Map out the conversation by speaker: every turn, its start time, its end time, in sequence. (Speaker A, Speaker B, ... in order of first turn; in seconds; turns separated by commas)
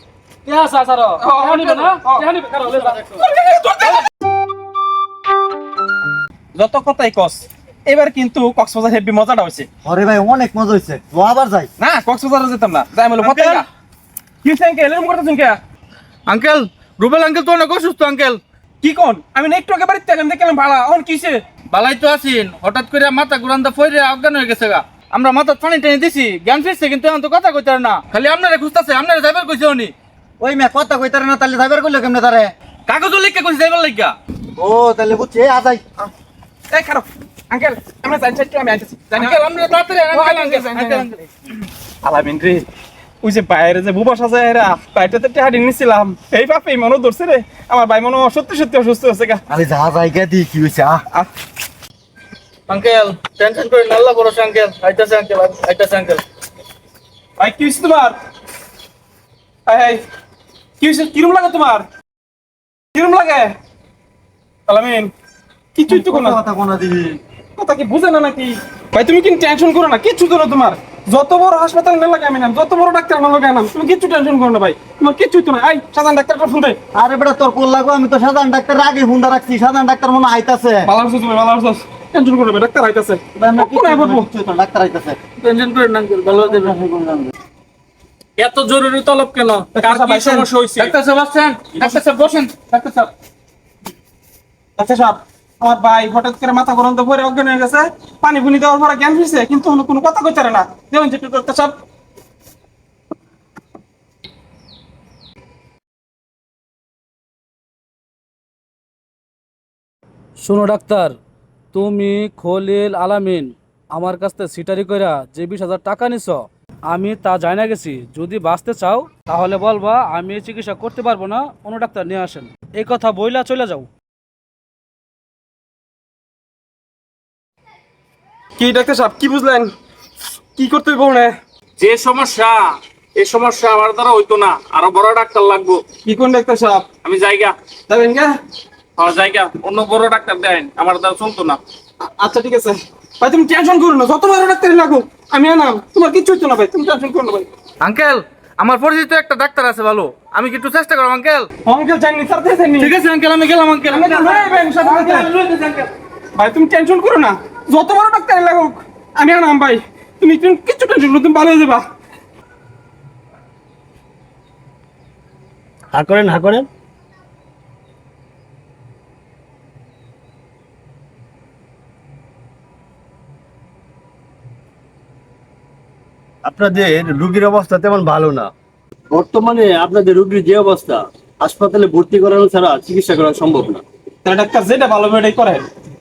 Speaker A: 0.5-3.3, Speaker B: 1.2-2.2, Speaker B: 3.3-3.9, Speaker B: 6.6-9.7, Speaker C: 9.8-11.7, Speaker B: 11.8-13.6, Speaker D: 13.2-13.7, Speaker B: 14.4-15.6, Speaker D: 16.3-18.4, Speaker B: 18.8-21.4, Speaker D: 21.7-29.9, Speaker C: 30.4-32.5, Speaker D: 32.9-34.1, Speaker C: 34.6-35.8, Speaker B: 36.7-39.3, Speaker D: 39.2-41.3, Speaker B: 40.1-41.0, Speaker B: 42.0-42.7, Speaker B: 43.2-49.4, Speaker C: 49.5-51.0, Speaker D: 52.7-56.2, Speaker B: 57.4-58.2, Speaker B: 59.7-60.0, Speaker B: 60.8-61.9, Speaker B: 63.0-63.6, Speaker B: 64.7-65.1, Speaker B: 65.8-66.4, Speaker C: 65.9-67.2, Speaker B: 67.6-76.8, Speaker C: 77.0-80.9, Speaker B: 80.9-84.3, Speaker C: 83.4-85.2, Speaker D: 85.4-86.8, Speaker C: 86.4-87.3, Speaker D: 88.4-93.1, Speaker B: 89.8-91.0, Speaker B: 94.8-101.8, Speaker A: 110.4-111.2, Speaker A: 111.7-123.9, Speaker B: 128.6-129.7, Speaker B: 130.6-131.4, Speaker D: 131.8-135.9, Speaker B: 136.0-136.9, Speaker D: 137.0-137.6, Speaker B: 137.9-138.4, Speaker D: 139.0-141.6, Speaker B: 142.2-147.5, Speaker D: 147.8-151.5, Speaker B: 151.7-152.9, Speaker D: 152.8-155.9, Speaker B: 153.9-155.3, Speaker B: 156.3-161.9, Speaker E: 165.9-166.7, Speaker E: 176.4-178.5, Speaker E: 179.1-183.8, Speaker B: 184.2-185.7